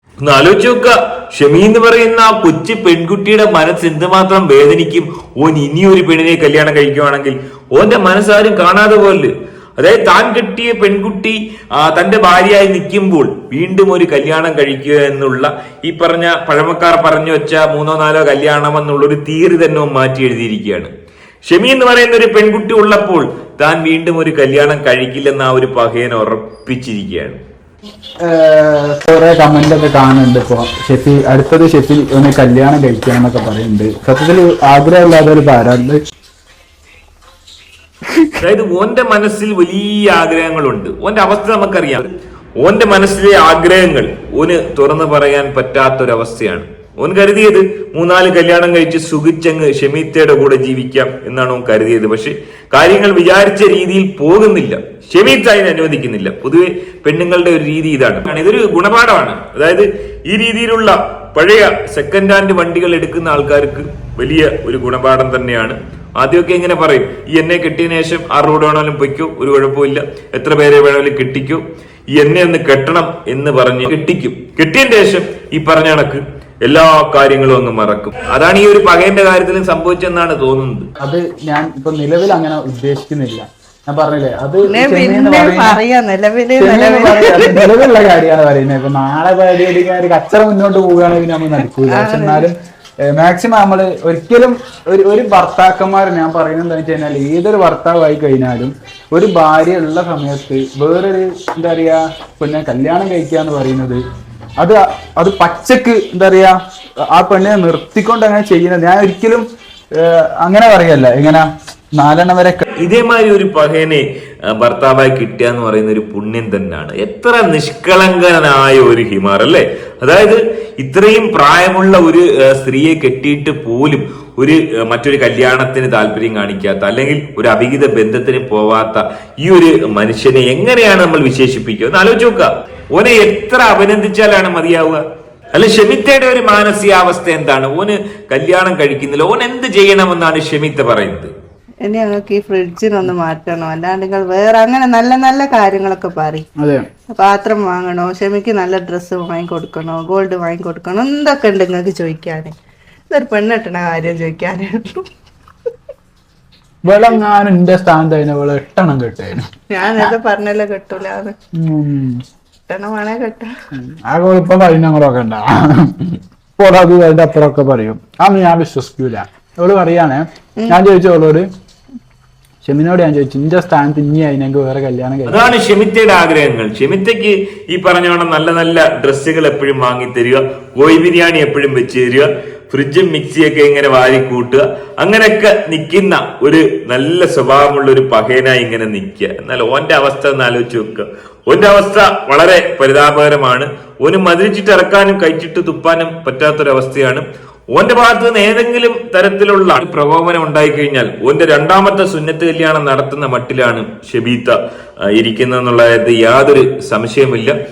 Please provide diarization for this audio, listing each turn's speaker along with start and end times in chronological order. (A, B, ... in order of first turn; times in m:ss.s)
0:00.2-0:20.9 A
0:21.4-0:27.4 A
0:28.2-0:36.0 B
0:38.4-0:42.1 A
0:42.6-1:11.6 A
1:12.1-1:20.9 A
1:21.0-1:25.8 B
1:24.7-1:27.8 C
1:26.6-1:32.5 B
1:31.9-1:32.5 C
1:33.2-1:44.0 B
1:44.6-1:46.6 B
1:47.1-1:49.5 B
1:50.0-1:52.6 B
1:52.8-1:54.0 A
1:54.6-2:15.0 A
2:15.5-2:21.3 A
2:21.8-2:26.5 C
2:26.6-2:26.9 B
2:27.1-2:32.5 C
2:33.1-2:35.1 C
2:36.8-2:40.1 B
2:39.7-2:41.3 C
2:41.6-2:42.2 B
2:42.7-2:43.5 C
2:43.7-2:51.5 B
2:52.6-2:55.5 B
2:55.3-3:24.6 A
3:25.1-3:27.6 A